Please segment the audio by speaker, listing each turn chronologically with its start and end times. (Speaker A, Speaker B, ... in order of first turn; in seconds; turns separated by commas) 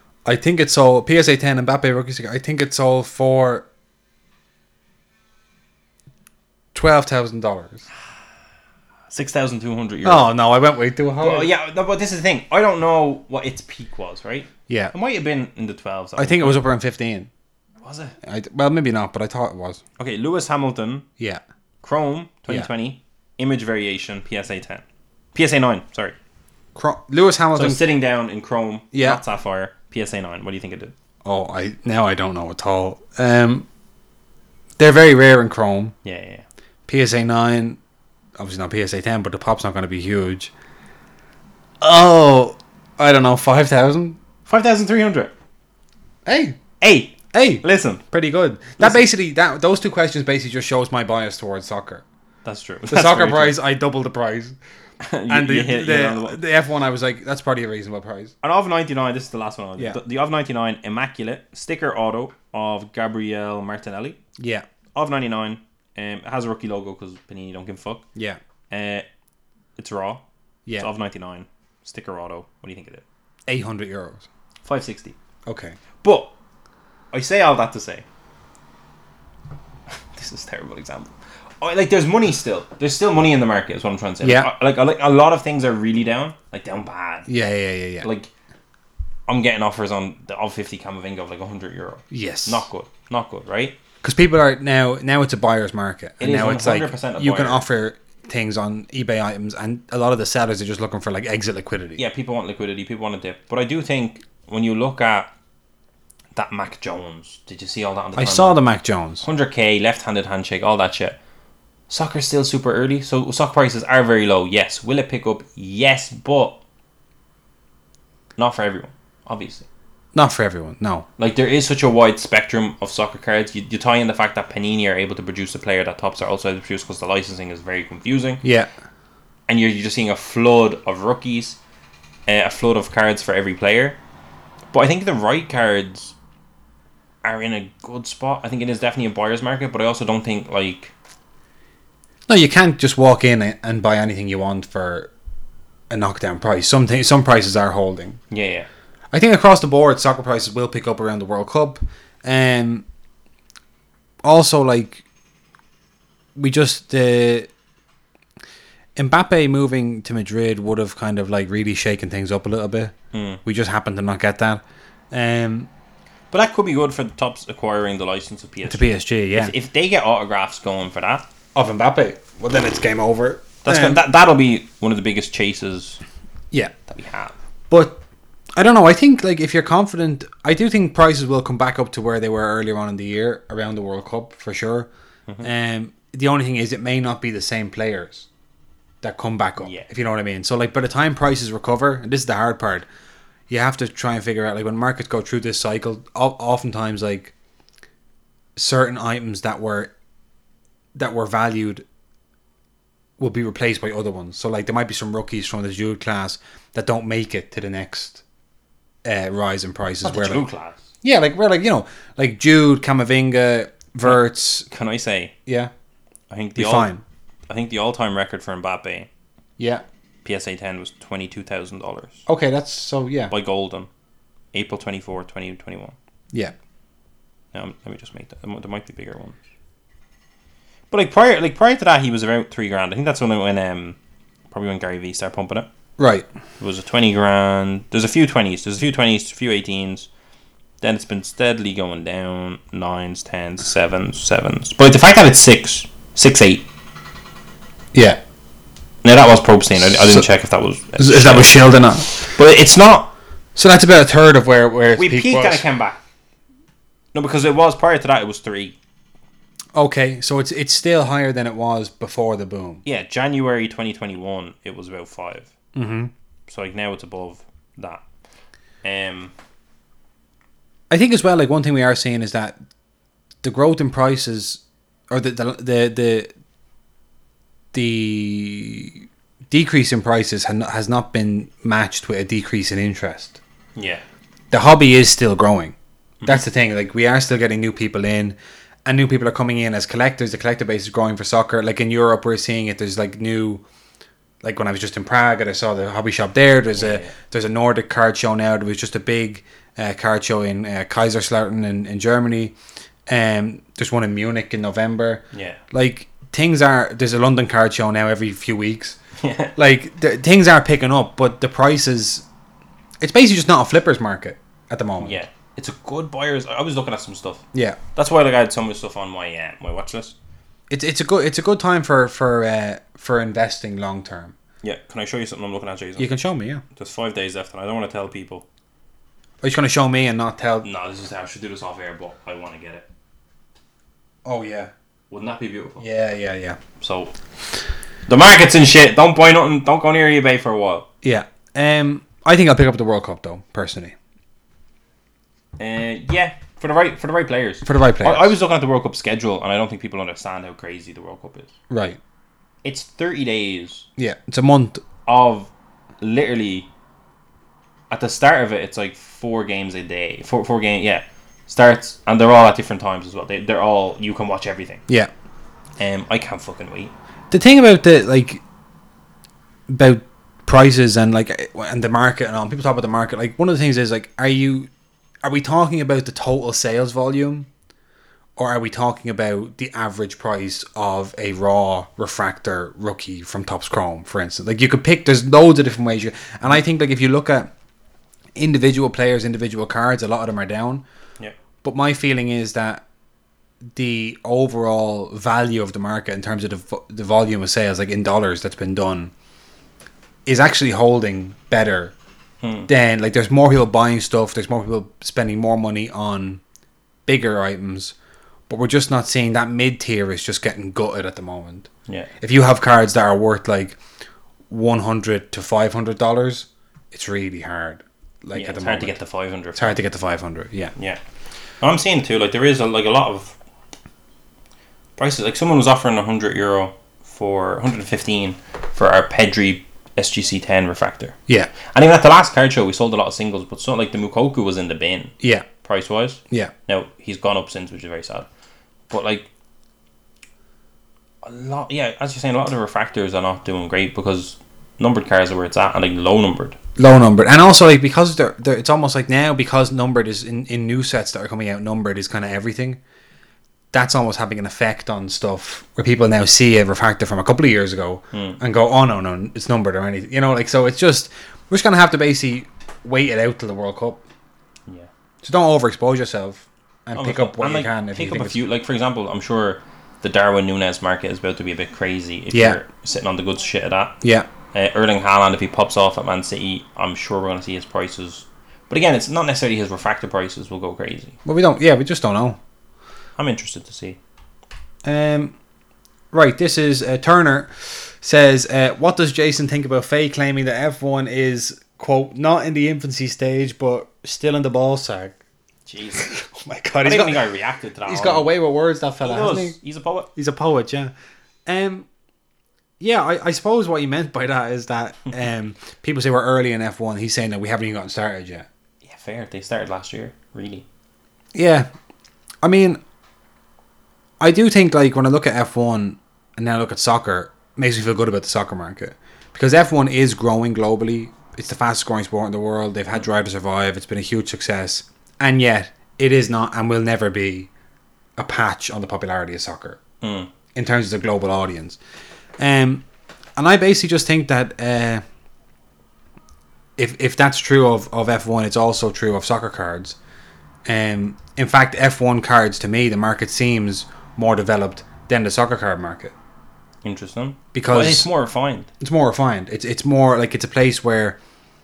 Speaker A: 0.2-3.6, Speaker A: 6.7-7.9, Speaker B: 9.1-10.3, Speaker A: 10.0-11.5, Speaker B: 11.2-16.6, Speaker A: 14.7-14.9, Speaker A: 16.2-17.3, Speaker B: 17.8-18.2, Speaker A: 18.2-19.8, Speaker B: 20.0-21.1, Speaker B: 21.8-24.8, Speaker B: 25.4-26.2, Speaker A: 26.8-27.8, Speaker B: 27.6-30.9, Speaker A: 28.9-29.2, Speaker A: 31.2-33.7, Speaker A: 34.8-36.0, Speaker B: 36.0-36.5, Speaker A: 36.9-37.8, Speaker A: 38.4-40.5, Speaker A: 41.8-44.2, Speaker B: 44.5-45.3, Speaker A: 46.3-46.6, Speaker B: 46.8-48.0, Speaker A: 47.3-52.0, Speaker B: 52.5-53.6, Speaker A: 52.9-54.6, Speaker B: 55.0-56.4, Speaker A: 55.3-58.3, Speaker B: 58.4-64.2, Speaker A: 64.4-64.7, Speaker B: 65.0-68.0, Speaker B: 68.7-69.1, Speaker B: 69.8-70.2, Speaker B: 70.8-73.0, Speaker A: 73.5-74.3, Speaker B: 74.7-75.2, Speaker A: 75.5-75.8, Speaker B: 76.0-76.3, Speaker B: 77.1-78.0, Speaker B: 80.1-87.3, Speaker A: 84.2-84.5, Speaker A: 87.3-88.1, Speaker B: 88.0-88.3, Speaker B: 89.3-93.8, Speaker A: 92.1-92.7, Speaker A: 94.0-102.0, Speaker B: 96.2-97.6, Speaker B: 102.0-105.3, Speaker B: 106.3-108.6, Speaker A: 108.2-109.3, Speaker B: 109.2-111.2, Speaker B: 111.9-116.6, Speaker B: 118.4-119.7, Speaker A: 120.1-121.1, Speaker B: 121.2-128.4, Speaker A: 128.4-128.7, Speaker B: 129.5-131.6, Speaker B: 132.3-134.0, Speaker B: 134.7-136.2, Speaker B: 137.2-140.9, Speaker A: 142.3-145.1, Speaker A: 145.9-148.2, Speaker B: 148.3-148.7, Speaker A: 149.1-152.8, Speaker A: 154.2-155.0, Speaker A: 156.4-157.5, Speaker A: 159.0-162.9, Speaker B: 163.1-163.4, Speaker A: 163.4-165.7, Speaker B: 166.3-171.3, Speaker A: 168.7-169.5, Speaker A: 171.6-174.0, Speaker B: 173.6-176.0, Speaker B: 176.9-177.3, Speaker A: 177.7-178.0, Speaker A: 178.6-184.9, Speaker A: 185.4-188.3, Speaker A: 189.0-192.9, Speaker B: 189.6-189.9, Speaker A: 193.5-197.3, Speaker A: 198.6-199.9, Speaker A: 200.9-201.8, Speaker A: 203.2-208.2, Speaker A: 209.0-210.5, Speaker B: 210.0-210.9, Speaker A: 211.0-214.7, Speaker B: 214.1-215.3, Speaker A: 215.5-215.7, Speaker B: 216.3-216.9, Speaker A: 216.6-217.0, Speaker B: 217.5-219.1, Speaker A: 219.6-219.8, Speaker B: 220.2-222.2, Speaker A: 222.3-223.3, Speaker B: 223.3-223.9, Speaker B: 224.5-225.9, Speaker B: 227.5-229.4, Speaker B: 230.9-234.0, Speaker B: 234.5-235.7, Speaker A: 236.0-236.3, Speaker B: 236.6-240.1, Speaker B: 240.8-246.7, Speaker A: 247.9-248.2, Speaker B: 249.0-253.1, Speaker A: 249.8-250.3, Speaker A: 251.0-252.3, Speaker A: 253.6-255.6, Speaker B: 255.0-256.0, Speaker B: 257.1-258.8, Speaker A: 259.8-262.8, Speaker B: 262.9-265.5, Speaker A: 265.8-266.1, Speaker B: 266.5-268.0, Speaker B: 268.8-269.3, Speaker A: 270.9-272.6, Speaker A: 273.4-276.3, Speaker A: 277.7-283.4, Speaker B: 283.8-284.0, Speaker A: 284.5-285.8, Speaker A: 286.3-293.6, Speaker A: 294.4-302.5, Speaker B: 296.8-297.1, Speaker A: 303.1-309.0, Speaker B: 305.3-305.6, Speaker B: 309.2-309.5, Speaker A: 309.6-312.3, Speaker A: 313.0-315.2, Speaker B: 315.0-320.1, Speaker A: 317.5-317.8, Speaker A: 320.7-324.4, Speaker B: 324.6-326.1, Speaker A: 326.0-326.6, Speaker B: 326.8-328.4, Speaker A: 329.4-330.7, Speaker B: 330.6-332.9, Speaker A: 334.2-334.7, Speaker B: 335.1-335.9, Speaker A: 335.8-336.6, Speaker B: 336.8-337.1, Speaker B: 338.1-340.9, Speaker A: 341.0-343.9, Speaker B: 345.6-351.5, Speaker A: 347.6-348.3, Speaker A: 351.7-352.0, Speaker B: 352.6-353.9, Speaker A: 354.0-354.8, Speaker B: 355.1-356.7, Speaker B: 357.9-364.8, Speaker B: 365.8-366.9, Speaker A: 367.3-368.4, Speaker A: 369.7-374.7, Speaker A: 375.2-377.5, Speaker A: 378.4-387.5, Speaker A: 388.4-390.8, Speaker A: 391.6-392.8, Speaker A: 393.7-399.1, Speaker A: 400.3-401.9, Speaker B: 402.4-402.7, Speaker A: 402.7-406.4, Speaker A: 407.1-407.9, Speaker A: 408.5-411.7, Speaker A: 412.2-413.8, Speaker A: 414.5-419.0, Speaker B: 418.3-419.8, Speaker A: 419.6-420.7, Speaker B: 421.6-423.4, Speaker B: 425.0-438.3, Speaker A: 435.2-435.5, Speaker B: 438.9-439.3, Speaker B: 441.2-446.6, Speaker A: 446.8-452.8, Speaker A: 453.7-464.0, Speaker B: 458.1-458.4, Speaker A: 465.2-468.4, Speaker B: 466.9-474.0, Speaker A: 472.3-472.6, Speaker A: 474.0-474.3, Speaker B: 474.5-481.2, Speaker A: 481.2-482.4, Speaker B: 483.2-484.0, Speaker A: 484.8-485.4, Speaker A: 486.1-495.2, Speaker B: 495.7-496.1, Speaker A: 496.0-497.2, Speaker B: 496.8-498.3, Speaker A: 497.9-499.6, Speaker B: 499.0-500.1, Speaker A: 500.2-500.9, Speaker A: 501.5-501.9, Speaker A: 502.8-508.5, Speaker B: 508.8-510.7, Speaker A: 511.3-511.7, Speaker A: 512.4-512.8, Speaker A: 514.2-527.5, Speaker A: 528.2-529.8, Speaker B: 530.0-530.3, Speaker A: 530.5-531.8, Speaker A: 532.4-532.8, Speaker A: 533.4-535.0, Speaker A: 536.8-540.0, Speaker A: 540.7-546.1, Speaker B: 546.8-548.7, Speaker A: 547.5-548.1, Speaker A: 548.8-551.2